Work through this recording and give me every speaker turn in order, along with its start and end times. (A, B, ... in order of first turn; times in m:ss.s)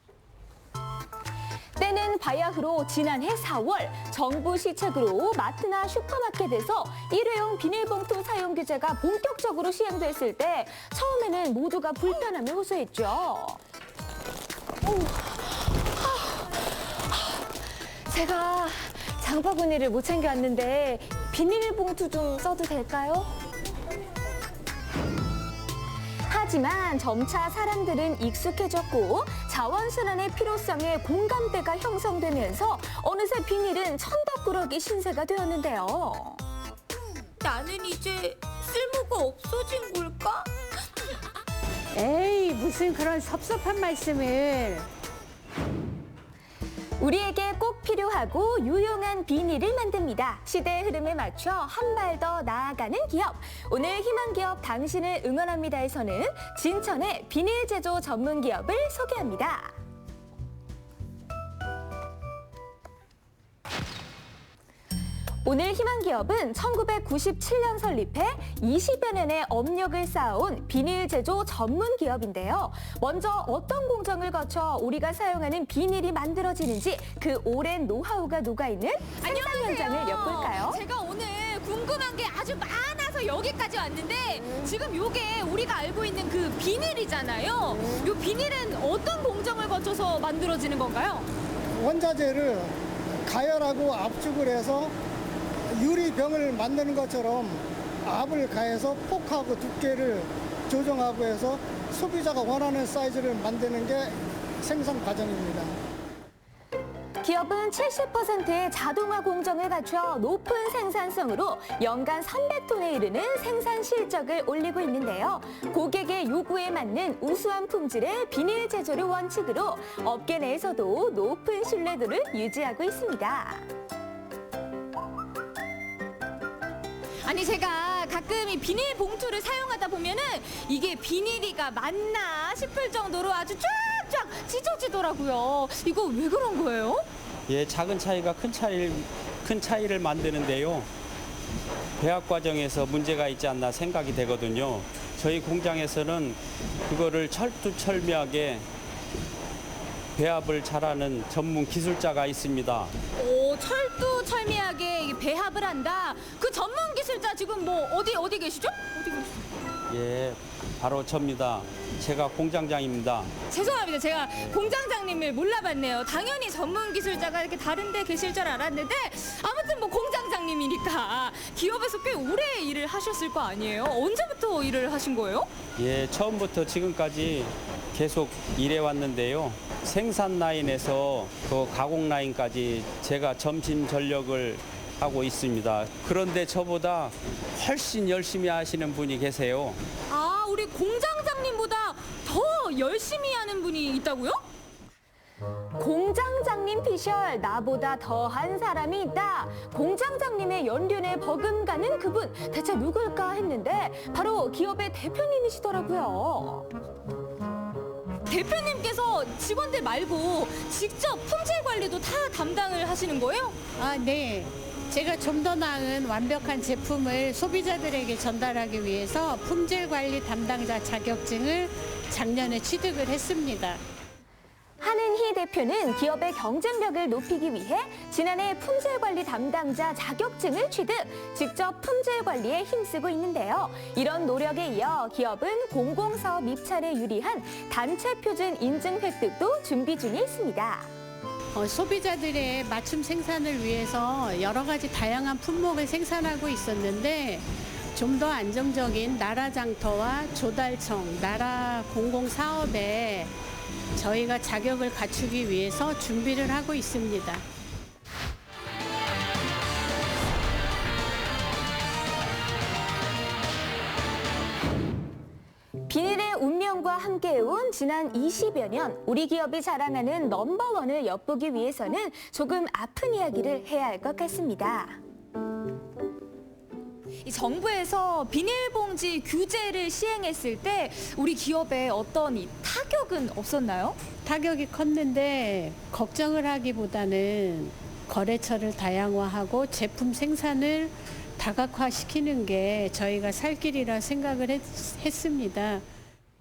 0:01.8-0:13.6 A
0:14.8-0:23.3 A
0:26.3-0:36.4 A
0:37.4-0:40.5 B
0:41.9-0:44.9 C
0:47.0-0:59.8 A
1:05.4-1:20.8 A
1:19.2-1:31.3 B
1:27.7-1:28.1 D
1:31.8-1:32.7 D
1:33.2-1:34.9 D
1:35.7-1:45.8 D
1:47.2-2:03.7 A
2:07.2-2:17.0 B
2:17.5-2:20.9 E
2:22.0-2:28.7 E
2:30.2-2:32.9 E
2:33.2-2:39.3 B
2:39.9-2:43.3 E
2:43.5-2:55.5 B
2:55.8-3:09.8 E
3:10.1-3:14.4 B
3:15.8-3:26.7 A
3:28.2-3:33.6 B
3:33.8-3:43.8 C
3:44.8-4:00.9 A
4:01.5-4:13.3 C
4:13.9-4:17.4 C
4:25.9-4:35.0 A
4:37.2-4:44.0 B
4:44.2-4:55.8 C